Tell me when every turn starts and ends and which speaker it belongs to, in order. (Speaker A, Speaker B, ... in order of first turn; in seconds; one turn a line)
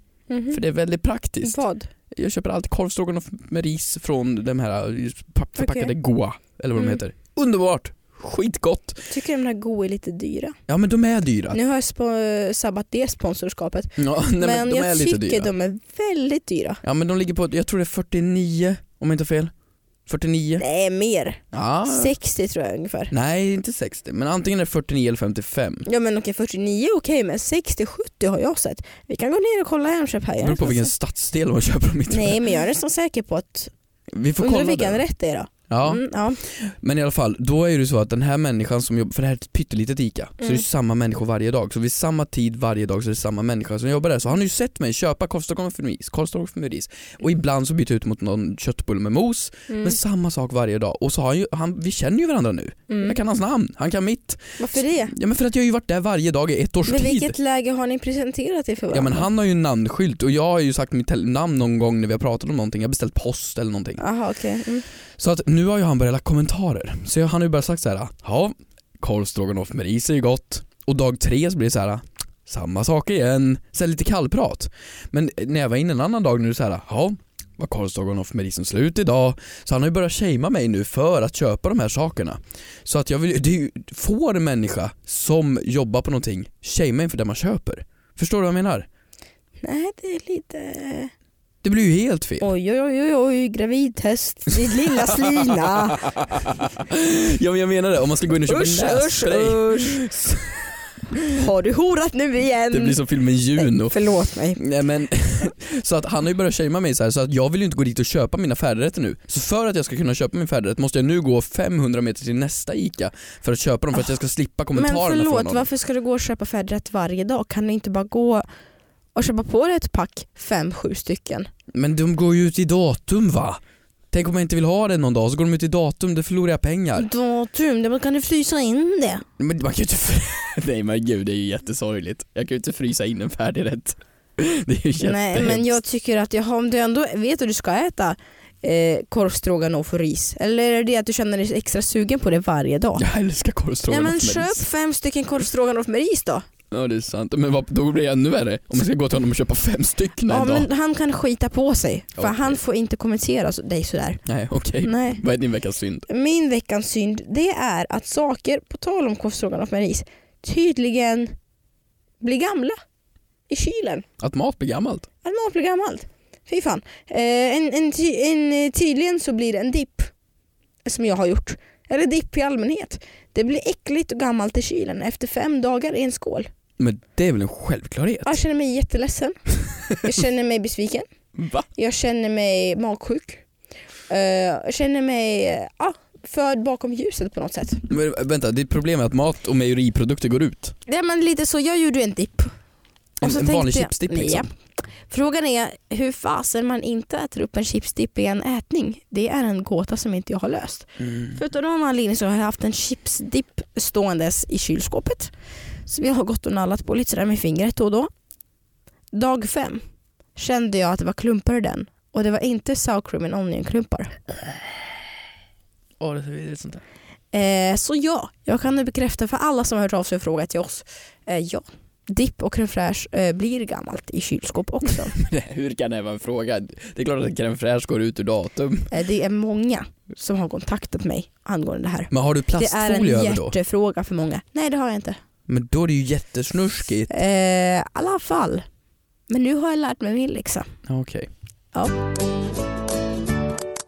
Speaker A: 0.3-0.6
Speaker B: 0.5-9.1
Speaker A: 1.4-1.9
Speaker A: 5.6-5.9
Speaker A: 9.1-10.6
Speaker B: 10.7-11.6
Speaker A: 11.5-16.8
Speaker B: 14.0-15.5
Speaker B: 16.8-19.5
Speaker B: 20.1-20.6
Speaker A: 20.6-23.1
Speaker B: 21.5-22.1
Speaker B: 23.1-25.9
Speaker A: 25.9-30.9
Speaker B: 30.4-32.4
Speaker A: 32.1-33.7
Speaker B: 34.1-35.0
Speaker A: 34.4-36.4
Speaker B: 35.7-57.4
Speaker A: 49.7-50.0
Speaker A: 52.9-53.2
Speaker A: 54.6-55.1
Speaker A: 56.9-59.3
Speaker B: 58.9-64.0
Speaker A: 64.0-64.9
Speaker B: 65.2-88.9
Speaker A: 89.6-91.1
Speaker B: 91.6-92.5
Speaker A: 92.4-96.1
Speaker B: 94.7-100.7
Speaker A: 98.5-100.0
Speaker A: 101.3-103.0
Speaker B: 102.7-104.0
Speaker A: 103.6-104.6
Speaker B: 104.6-115.7
Speaker A: 114.7-118.5
Speaker A: 119.2-121.5
Speaker B: 121.7-123.6
Speaker B: 124.1-127.1
Speaker A: 127.0-129.2
Speaker B: 129.4-135.8
Speaker A: 135.0-143.1
Speaker B: 143.0-144.6
Speaker A: 143.9-146.4
Speaker B: 146.7-150.7
Speaker A: 150.3-154.2
Speaker B: 152.2-152.6
Speaker B: 154.3-156.1
Speaker A: 154.8-155.2
Speaker A: 156.1-161.3
Speaker A: 162.2-162.8
Speaker A: 163.5-164.1
Speaker B: 164.2-165.1
Speaker A: 165.2-170.1
Speaker A: 170.8-176.5
Speaker B: 176.8-178.4
Speaker A: 178.2-179.4
Speaker A: 180.0-181.1
Speaker B: 181.4-181.7
Speaker A: 181.8-183.4
Speaker A: 184.1-187.8
Speaker B: 187.9-190.8
Speaker A: 190.9-192.5
Speaker B: 193.2-194.5
Speaker A: 193.2-194.5
Speaker A: 195.1-205.3
Speaker B: 201.0-201.4
Speaker A: 205.9-208.1
Speaker A: 209.1-209.8
Speaker A: 210.4-214.2
Speaker B: 216.0-216.8
Speaker A: 217.3-225.2
Speaker B: 225.1-228.9
Speaker A: 228.9-235.2
Speaker B: 232.1-233.6
Speaker B: 235.5-237.1
Speaker A: 237.1-238.7
Speaker A: 239.3-240.7
Speaker B: 240.9-241.3